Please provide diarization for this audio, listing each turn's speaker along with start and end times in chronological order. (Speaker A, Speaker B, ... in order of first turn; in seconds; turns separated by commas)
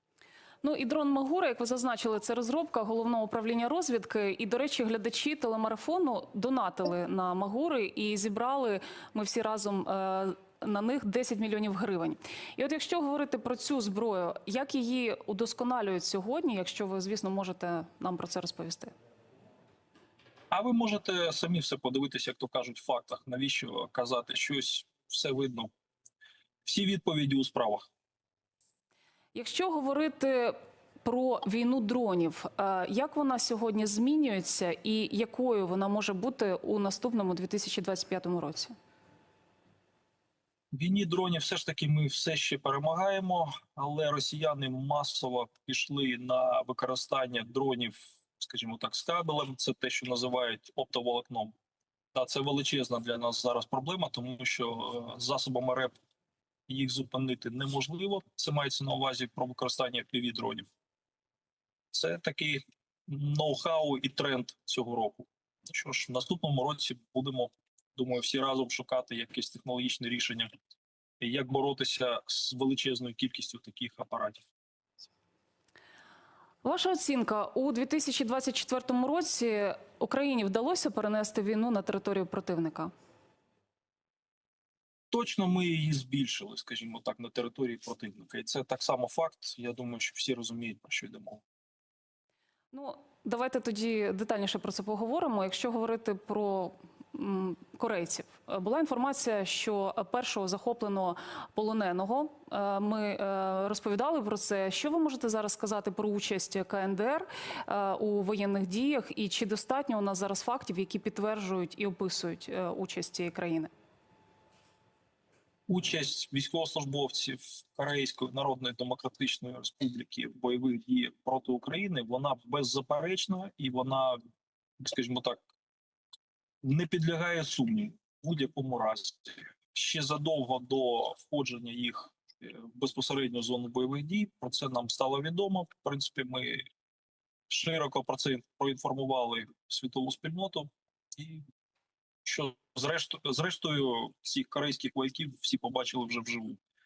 Speaker A: 0.6-18.9, Speaker B: 20.5-25.7, Speaker B: 26.6-27.9, Speaker A: 29.3-38.8, Speaker B: 40.7-51.5, Speaker B: 52.1-56.0, Speaker B: 56.7-60.7, Speaker B: 61.9-70.5, Speaker B: 71.2-74.5, Speaker A: 76.6-82.9, Speaker B: 85.1-91.4, Speaker A: 92.7-113.7, Speaker B: 115.7-124.2, Speaker B: 124.8-125.4, Speaker B: 126.6-136.7, Speaker B: 137.5-141.4, Speaker B: 142.2-146.6